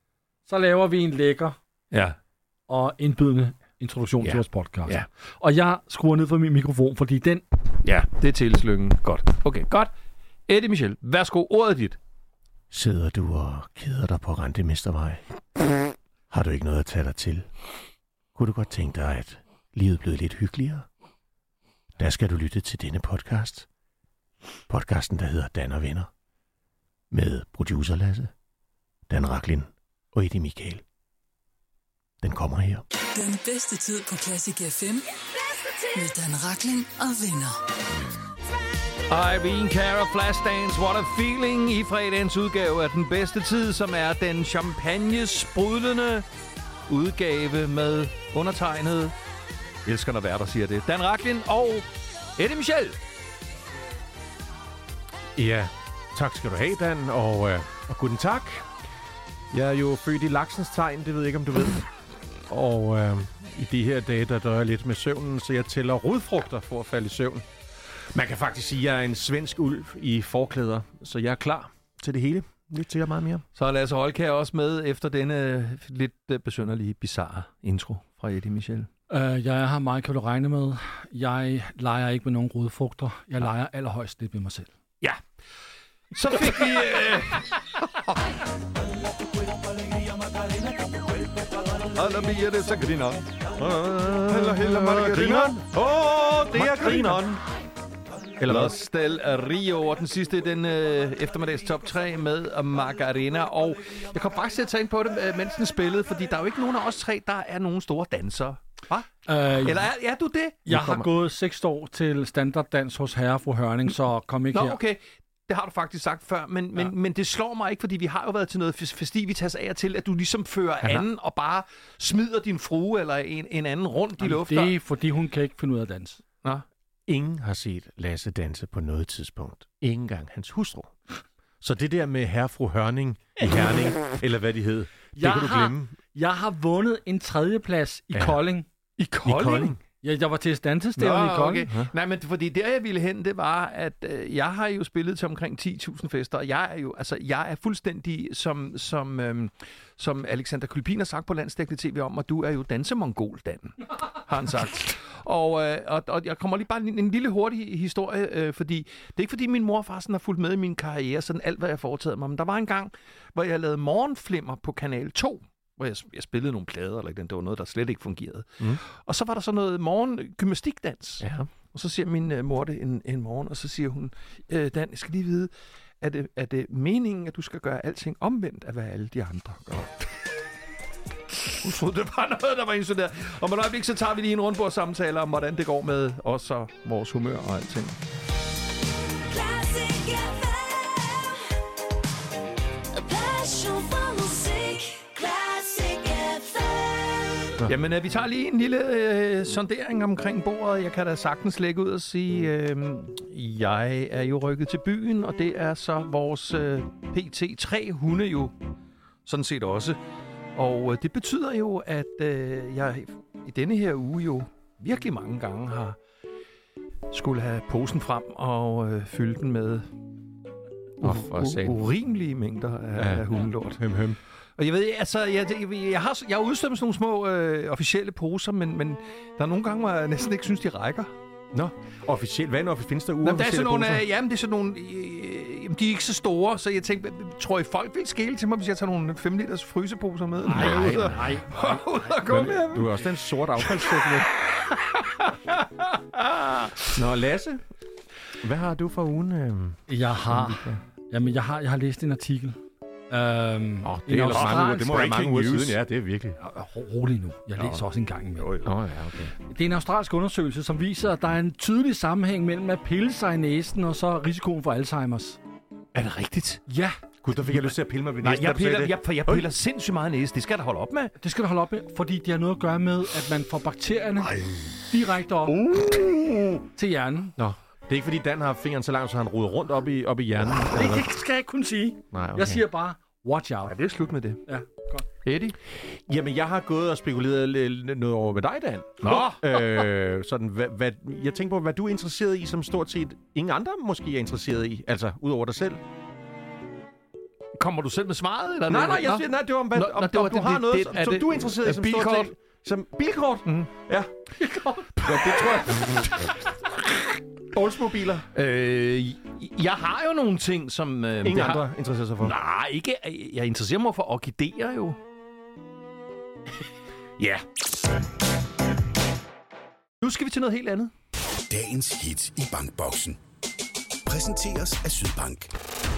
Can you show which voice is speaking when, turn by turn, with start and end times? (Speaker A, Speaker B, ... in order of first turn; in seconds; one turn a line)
Speaker A: 0.5-1.6
Speaker B: 1.9-2.2
Speaker A: 2.7-7.4
Speaker B: 4.2-5.1
Speaker B: 7.8-9.9
Speaker B: 10.5-12.0
Speaker C: 12.7-15.7
Speaker C: 16.3-17.5
Speaker C: 18.3-20.9
Speaker C: 22.0-23.7
Speaker C: 24.7-26.1
Speaker C: 27.1-28.3
Speaker C: 29.1-30.8
Speaker C: 32.2-32.9
Speaker D: 33.0-37.6
Speaker B: 39.1-46.3
Speaker B: 46.9-49.1
Speaker B: 49.9-53.0
Speaker C: 55.4-58.7
Speaker C: 59.5-61.9
Speaker C: 62.5-67.5
Speaker C: 68.1-73.4
Speaker B: 73.5-78.9
Speaker A: 79.1-84.7
Speaker B: 86.1-88.2
Speaker B: 91.9-97.4
Speaker C: 93.6-97.4
Speaker C: 98.4-98.8
Speaker B: 98.4-110.6
Speaker A: 109.3-109.9
Speaker A: 110.7-114.8
Speaker C: 110.7-111.1
Speaker B: 114.5-124.7
Speaker A: 124.2-126.2
Speaker C: 127.1-130.9
Speaker C: 131.6-135.9
Speaker A: 135.2-138.7
Speaker C: 138.1-138.4
Speaker B: 139.0-139.8
Speaker C: 139.2-139.8
Speaker A: 140.0-141.7
Speaker B: 141.0-180.1
Speaker C: 171.2-171.5
Speaker B: 181.4-187.9
Speaker D: 189.2-191.4
Speaker D: 192.9-197.6
Speaker B: 197.7-208.5
Speaker B: 209.2-210.0
Speaker B: 210.6-216.0
Speaker B: 217.1-219.9
Speaker B: 221.0-223.8
Speaker C: 221.0-221.8
Speaker C: 222.9-224.2
Speaker B: 224.6-231.1
Speaker C: 231.5-234.1
Speaker B: 233.2-243.0
Speaker A: 240.4-242.1
Speaker C: 240.5-241.2
Speaker C: 242.2-244.3
Speaker B: 243.7-244.1
Speaker B: 244.9-247.2
Speaker C: 246.9-247.6
Speaker C: 248.4-250.8
Speaker A: 249.9-255.1
Speaker C: 253.8-256.4
Speaker B: 254.3-255.8
Speaker A: 256.4-258.6
Speaker B: 258.4-258.7
Speaker C: 258.6-259.3
Speaker A: 259.5-265.4
Speaker B: 265.9-266.6
Speaker A: 266.7-267.0
Speaker C: 267.2-269.5
Speaker B: 268.2-271.1
Speaker A: 271.2-274.3
Speaker A: 274.9-275.6
Speaker B: 275.5-276.6
Speaker A: 276.8-277.4
Speaker C: 277.4-281.1
Speaker A: 280.7-283.8
Speaker C: 282.1-282.6
Speaker B: 283.6-284.4
Speaker A: 284.4-285.0
Speaker B: 285.2-285.6
Speaker C: 285.8-295.8
Speaker B: 289.0-289.6
Speaker B: 297.6-302.3
Speaker C: 298.7-304.1
Speaker A: 304.4-304.9
Speaker C: 305.0-306.4
Speaker B: 305.1-306.2
Speaker C: 307.5-308.3
Speaker B: 308.3-311.6
Speaker C: 311.2-312.4
Speaker B: 312.2-315.0
Speaker B: 320.0-320.9
Speaker E: 321.5-323.2
Speaker E: 324.1-325.5